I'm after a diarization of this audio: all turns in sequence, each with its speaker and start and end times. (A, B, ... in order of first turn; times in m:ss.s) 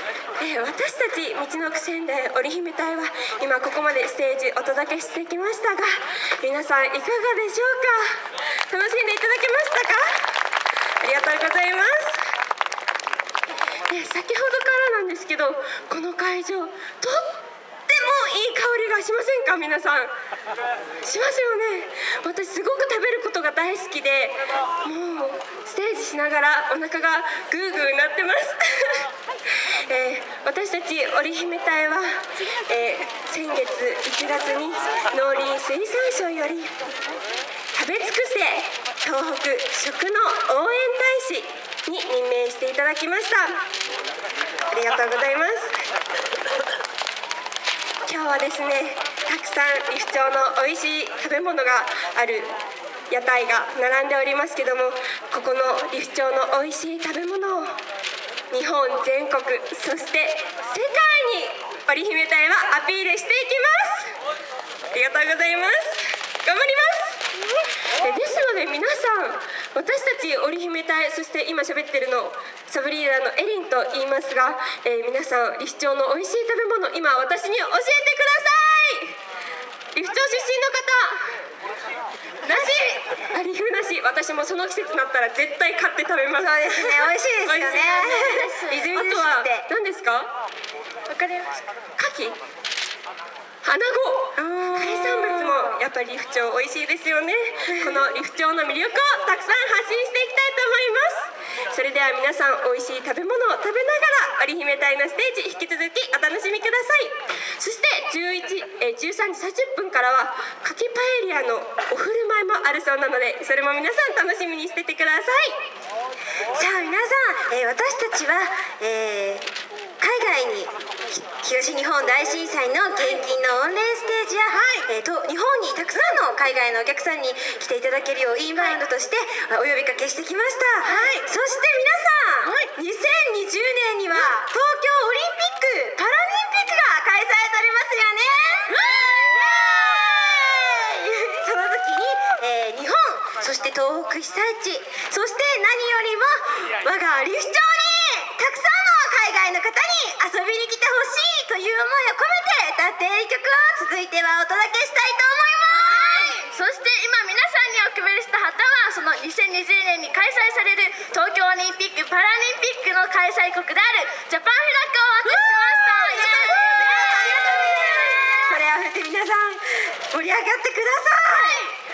0:00.4-0:10.2 A
0:11.0-0:12.2 A
0:13.9-0:17.3 A
0:17.9-0:20.1 A
0:21.0-0:29.0 A
0:29.6-0:36.7 A
0:37.7-0:43.6 A
0:44.7-0:45.7 A
0:48.0-0:52.5 A
0:53.1-0:57.8 A
0:58.5-1:04.1 A
1:04.9-1:07.2 A
1:08.0-1:19.2 A
1:19.9-1:21.3 A
1:22.4-1:23.0 B
1:22.5-1:30.3 A
1:26.4-1:29.7 C
1:28.0-1:28.8 B
1:31.1-1:31.5 B
1:32.0-1:32.4 A
1:33.6-1:55.6 A
1:34.4-1:35.8 C
1:37.7-1:38.0 C
1:56.5-1:59.4 C
2:00.0-2:36.4 C
2:18.7-2:19.2 B
2:35.7-2:48.6 B
2:45.2-2:51.7 C
2:51.3-2:51.7 B